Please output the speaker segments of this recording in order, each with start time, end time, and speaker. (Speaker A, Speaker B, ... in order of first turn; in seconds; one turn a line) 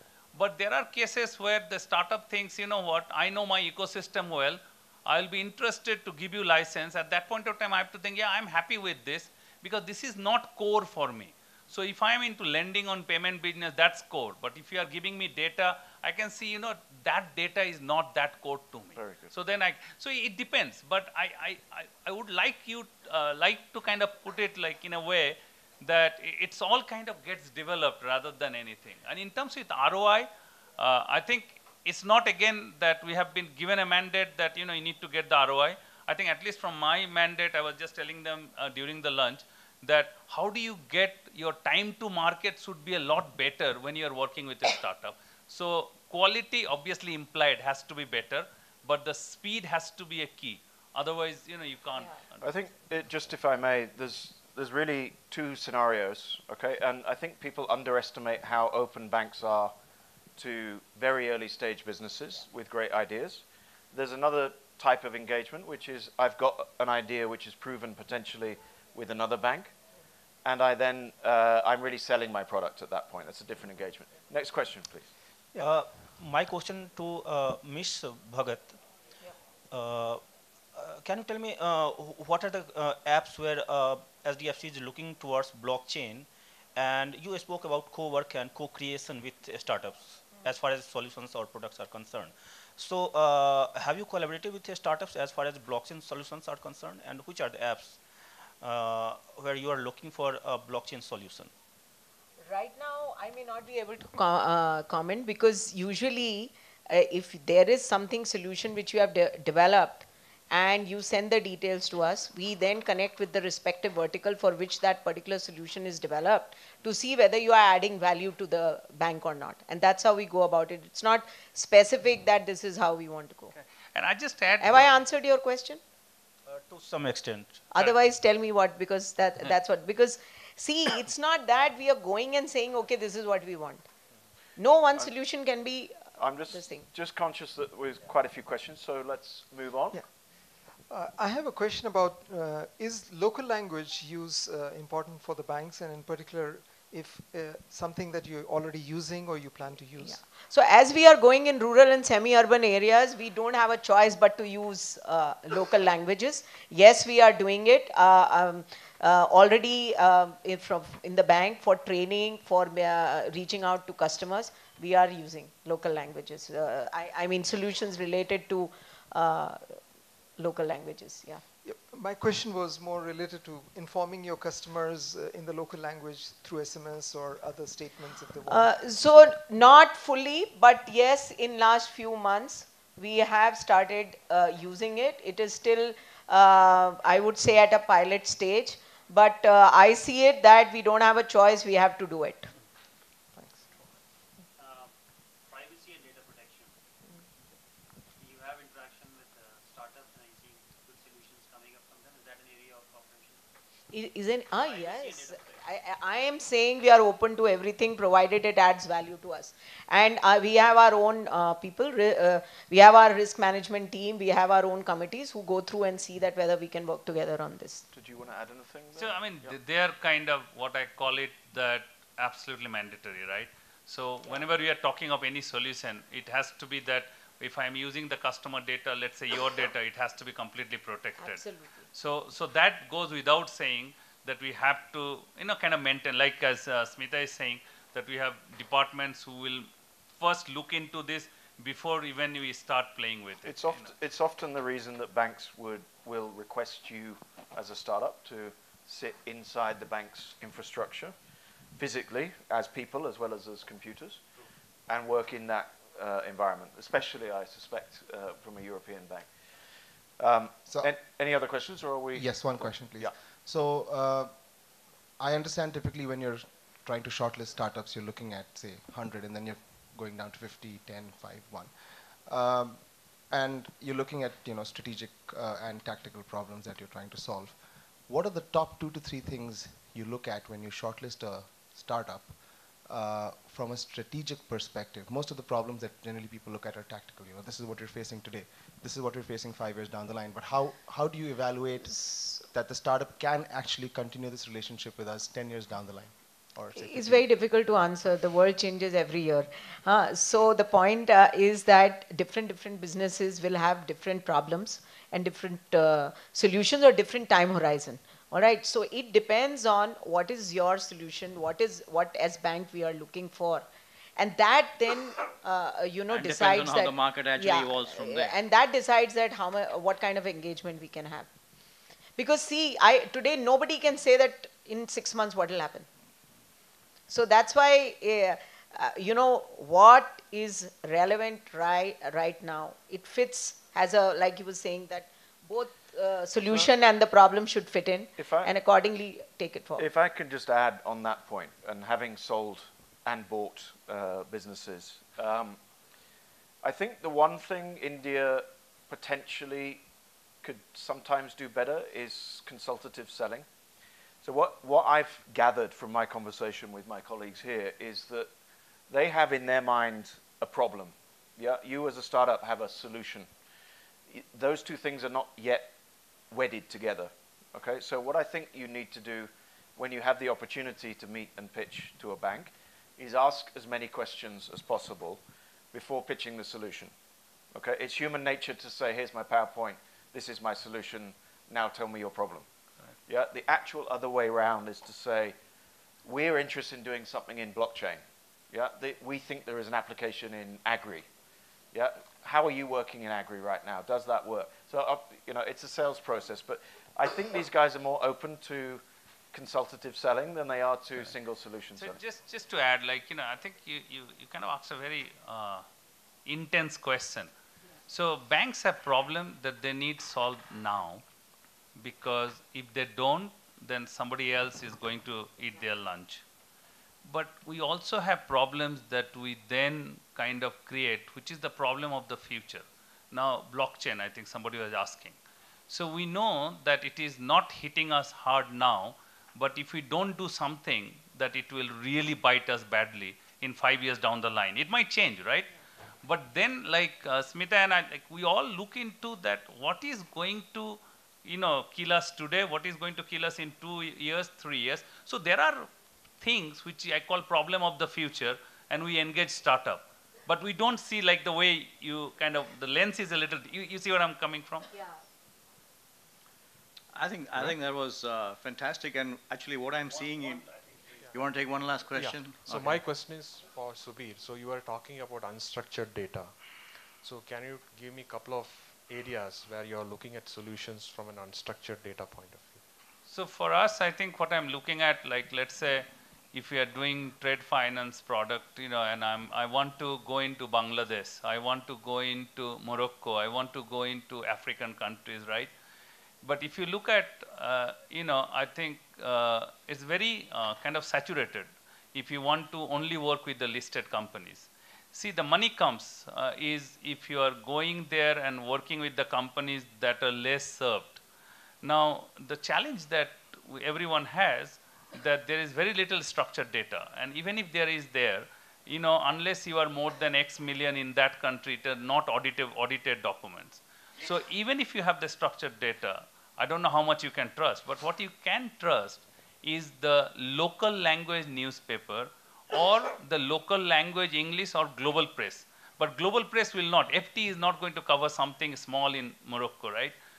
Speaker A: 0.3-52.5
Speaker B: 18.9-19.3
Speaker B: 52.4-59.7
Speaker B: 60.4-69.7
Speaker B: 70.4-75.1
Speaker C: 75.5-78.8
Speaker C: 79.7-98.0
Speaker C: 98.6-101.5
Speaker D: 102.5-123.5
Speaker A: 123.9-124.9
Speaker D: 124.6-125.8
Speaker C: 126.4-127.8
Speaker D: 127.7-133.8
Speaker D: 134.6-136.9
Speaker B: 136.2-140.0
Speaker E: 140.8-150.2
Speaker D: 150.0-169.8
Speaker D: 170.4-171.4
Speaker E: 171.6-178.7
Speaker D: 178.5-192.5
Speaker E: 193.3-193.7
Speaker F: 194.6-194.9
Speaker F: 195.4-196.7
Speaker F: 198.2-203.4
Speaker D: 203.9-217.8
Speaker F: 204.5-205.6
Speaker B: 217.9-219.6
Speaker A: 218.9-243.9
Speaker D: 231.2-231.8
Speaker B: 243.4-251.1
Speaker B: 251.8-254.2
Speaker B: 254.9-259.3
Speaker B: 260.2-263.1
Speaker G: 260.6-260.9
Speaker G: 262.1-264.5
Speaker G: 265.2-297.2
Speaker D: 291.9-292.3
Speaker D: 296.7-313.6
Speaker D: 314.2-321.3
Speaker H: 316.1-318.4
Speaker D: 322.2-325.9
Speaker D: 327.1-339.9
Speaker B: 338.2-338.5
Speaker B: 339.8-345.6
Speaker B: 346.6-349.8
Speaker B: 350.4-353.5
Speaker B: 354.2-358.3
Speaker B: 358.9-363.3
Speaker B: 364.1-365.7
Speaker B: 366.3-376.9
Speaker B: 377.5-382.4
Speaker B: 383.1-385.4
Speaker B: 386.0-391.1
Speaker B: 391.7-402.0
Speaker A: 401.8-405.6
Speaker A: 406.2-407.3
Speaker A: 407.9-411.0
Speaker A: 411.8-416.2
Speaker A: 417.0-425.2
Speaker A: 425.7-435.5
Speaker A: 436.0-445.7
Speaker A: 446.2-454.7
Speaker H: 456.9-460.5
Speaker H: 461.1-462.9
Speaker I: 461.9-466.4
Speaker I: 467.0-472.6
Speaker A: 473.1-485.5
Speaker A: 486.2-501.0
Speaker A: 501.6-530.0